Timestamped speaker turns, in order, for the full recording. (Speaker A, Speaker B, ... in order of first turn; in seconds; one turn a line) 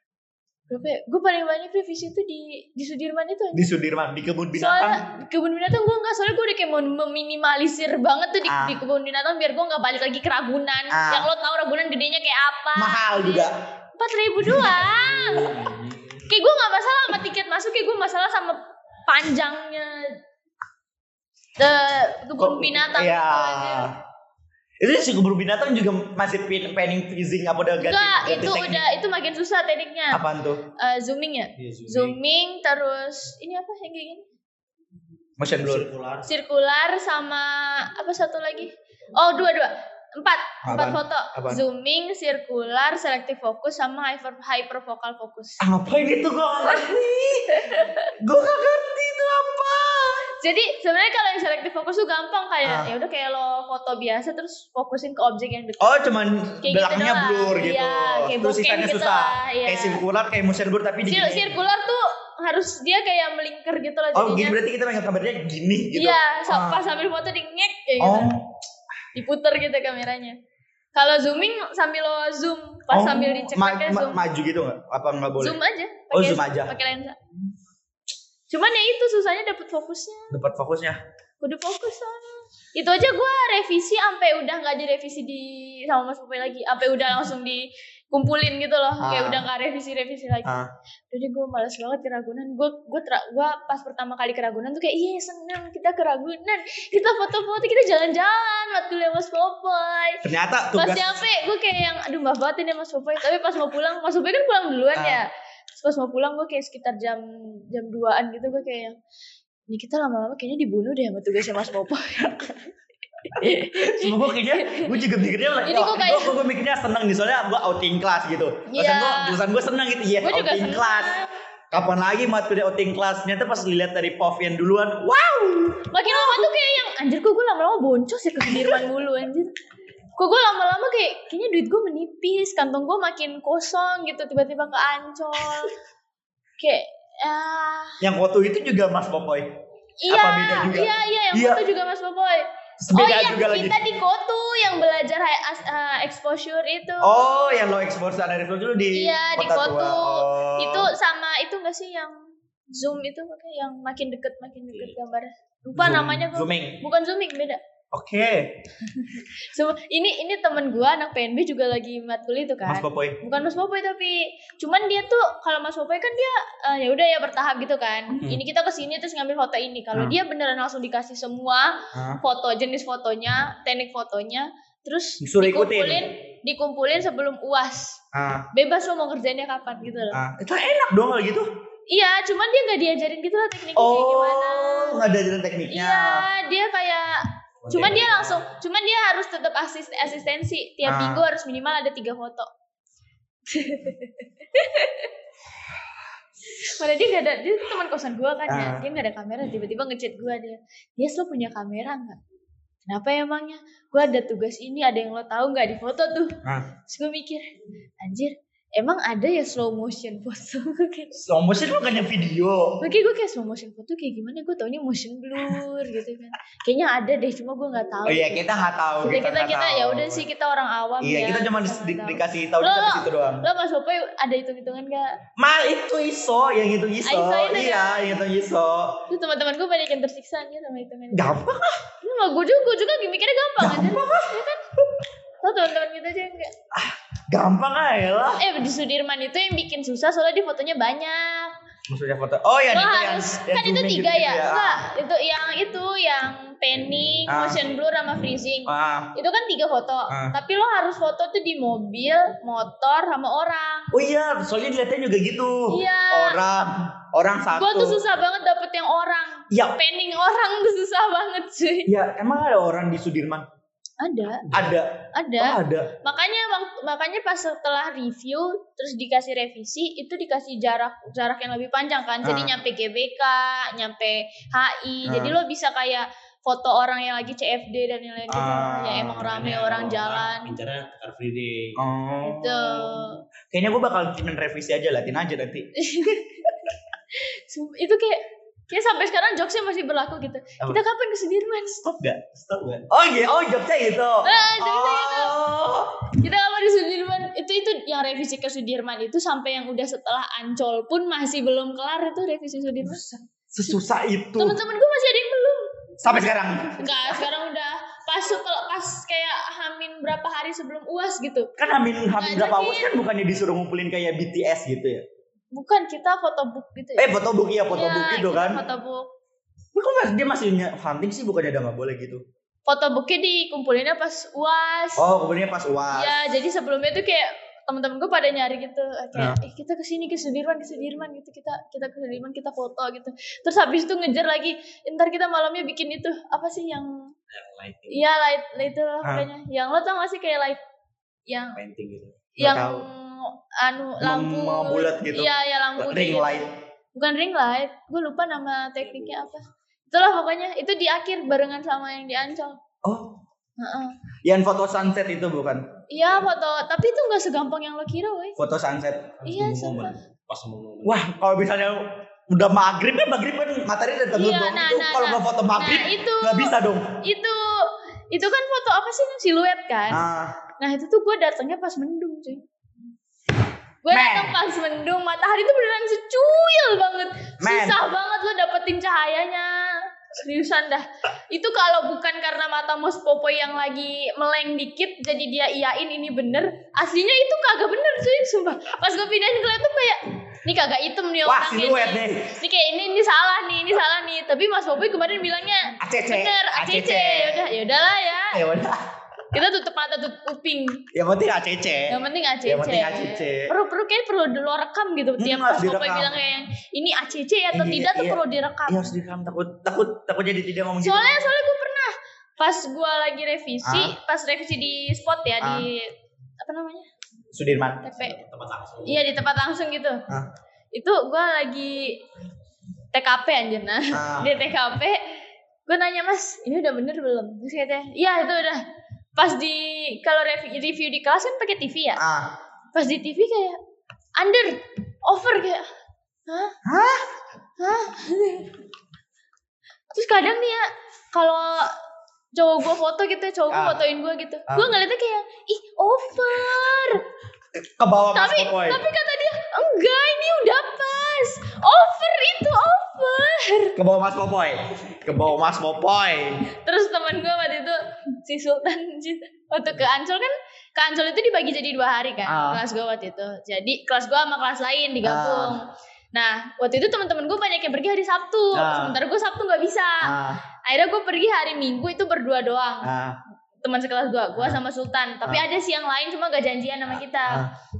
Speaker A: 0.7-3.7
Speaker B: 3.5-5.0
Speaker A: 4.5-20.2
Speaker B: 8.5-8.8
Speaker B: 10.9-11.3
Speaker B: 12.8-13.5
Speaker B: 14.4-14.9
Speaker C: 14.9-16.0
Speaker A: 21.6-23.9
Speaker B: 22.4-23.9
Speaker B: 24.8-28.9
Speaker A: 27.8-30.2
Speaker B: 30.1-30.6
Speaker A: 30.8-34.2
Speaker C: 31.6-32.1
Speaker B: 35.4-35.9
Speaker C: 35.5-36.3
Speaker A: 36.2-45.6
Speaker B: 40.6-41.6
Speaker B: 45.6-50.2
Speaker A: 47.5-48.1
Speaker A: 50.4-56.0
Speaker B: 52.6-52.9
Speaker B: 55.8-61.5
Speaker A: 56.6-60.0
Speaker A: 61.0-64.6
Speaker B: 64.1-66.8
Speaker A: 66.0-68.3
Speaker B: 68.0-68.6
Speaker A: 69.1-70.3
Speaker A: 70.9-74.2
Speaker B: 72.9-75.6
Speaker A: 75.4-77.2
Speaker B: 76.1-76.7
Speaker A: 78.5-80.3
Speaker B: 80.3-81.0
Speaker A: 81.4-90.5
Speaker B: 89.0-89.5
Speaker B: 90.4-90.7
Speaker A: 91.1-100.2
Speaker B: 100.2-101.2
Speaker A: 100.8-108.9
Speaker B: 104.9-105.2
Speaker A: 109.7-116.4
Speaker B: 113.4-121.2
Speaker A: 118.7-119.4
Speaker A: 120.2-121.3
Speaker B: 121.7-126.5
Speaker A: 125.9-129.5
Speaker B: 128.4-128.8
Speaker A: 130.2-135.7
Speaker A: 136.6-138.0
Speaker B: 138.0-139.5
Speaker A: 140.0-147.8
Speaker B: 140.1-141.6
Speaker B: 142.8-143.7
Speaker B: 147.0-150.9
Speaker A: 148.9-152.1
Speaker A: 152.7-157.6
Speaker B: 155.7-156.8
Speaker B: 157.9-158.6
Speaker A: 158.8-178.0
Speaker B: 162.7-163.2
Speaker B: 168.1-168.4
Speaker B: 169.9-170.2
Speaker B: 171.9-172.2
Speaker B: 175.2-176.1
Speaker B: 178.1-178.5
Speaker A: 178.5-180.2
Speaker B: 180.1-181.5
Speaker A: 181.9-185.0
Speaker B: 183.7-186.3
Speaker A: 185.7-192.5
Speaker B: 187.7-188.3
Speaker B: 190.8-191.2
Speaker A: 193.5-195.1
Speaker A: 196.6-202.2
Speaker B: 198.5-198.9
Speaker A: 202.8-207.4
Speaker B: 206.4-206.7
Speaker A: 208.0-211.1
Speaker B: 211.1-212.8
Speaker A: 212.8-218.4
Speaker B: 218.1-220.2
Speaker A: 219.0-225.1
Speaker B: 221.0-223.5
Speaker B: 225.4-229.0
Speaker A: 227.0-228.2
Speaker A: 229.1-231.3
Speaker B: 231.1-231.8
Speaker A: 232.0-234.6
Speaker B: 233.6-234.4
Speaker A: 235.4-236.5
Speaker B: 236.7-238.4
Speaker A: 238.4-241.5
Speaker B: 241.9-244.8
Speaker A: 242.7-253.9
Speaker B: 247.3-247.6
Speaker B: 248.7-249.1
Speaker B: 250.1-250.3
Speaker B: 253.9-258.0
Speaker A: 255.7-256.4
Speaker A: 257.5-261.9
Speaker B: 259.5-259.8
Speaker B: 261.9-263.4
Speaker A: 264.0-264.5
Speaker B: 264.5-265.9
Speaker A: 265.1-280.6
Speaker B: 272.2-272.5
Speaker B: 275.1-275.4
Speaker B: 278.3-279.6
Speaker C: 279.3-281.8
Speaker B: 281.8-285.7
Speaker A: 282.2-283.2
Speaker A: 285.8-291.8
Speaker B: 291.8-296.1
Speaker A: 294.2-295.4
Speaker A: 296.2-303.0
Speaker B: 302.8-304.6
Speaker A: 304.4-306.2
Speaker B: 306.0-307.3
Speaker A: 306.8-311.5
Speaker B: 311.6-315.0
Speaker A: 312.2-312.9
Speaker A: 315.5-317.1
Speaker B: 316.9-318.6
Speaker A: 317.7-319.1
Speaker B: 319.7-322.2
Speaker A: 322.6-325.0
Speaker B: 324.9-326.2
Speaker A: 325.9-336.9
Speaker C: 337.3-338.0
Speaker A: 337.9-340.6
Speaker B: 339.0-339.3
Speaker A: 341.3-341.6
Speaker C: 341.6-342.2
Speaker A: 342.4-352.6
Speaker B: 342.4-342.9
Speaker B: 344.0-346.5
Speaker C: 348.8-349.3
Speaker B: 352.8-353.2
Speaker A: 353.6-353.9
Speaker B: 354.2-355.7
Speaker A: 355.9-358.4
Speaker B: 358.4-359.9
Speaker A: 359.2-360.0
Speaker C: 360.3-361.0
Speaker B: 360.8-367.0
Speaker A: 364.1-370.0
Speaker B: 369.9-370.4
Speaker A: 370.6-372.4
Speaker A: 373.8-398.4
Speaker B: 373.9-374.4
Speaker B: 377.4-377.8
Speaker B: 391.2-392.4
Speaker B: 395.8-397.5
Speaker B: 398.3-398.8
Speaker A: 399.3-400.8
Speaker B: 400.9-403.5
Speaker A: 401.9-408.9
Speaker B: 405.2-406.2
Speaker B: 407.5-411.3
Speaker A: 410.8-416.9
Speaker B: 413.6-413.9
Speaker B: 415.4-415.7
Speaker B: 417.3-417.9
Speaker A: 417.8-418.2
Speaker C: 418.1-419.0
Speaker A: 418.8-420.0
Speaker A: 420.7-422.0
Speaker A: 422.9-425.0
Speaker B: 423.9-424.3
Speaker A: 425.7-428.6
Speaker A: 429.1-432.0
Speaker B: 432.0-432.3
Speaker A: 432.7-433.6
Speaker A: 434.2-435.6
Speaker A: 436.3-436.5
Speaker B: 436.6-437.0
Speaker A: 437.6-438.6
Speaker A: 439.9-441.7
Speaker A: 442.3-447.0
Speaker B: 443.5-443.8
Speaker B: 444.5-444.7
Speaker B: 447.8-448.8
Speaker A: 448.1-453.8
Speaker B: 453.8-456.5
Speaker A: 456.6-470.1
Speaker B: 462.2-462.6
Speaker B: 465.0-465.6
Speaker B: 468.5-469.0
Speaker B: 470.0-470.4
Speaker A: 470.6-472.9
Speaker B: 472.8-473.2
Speaker A: 473.6-477.4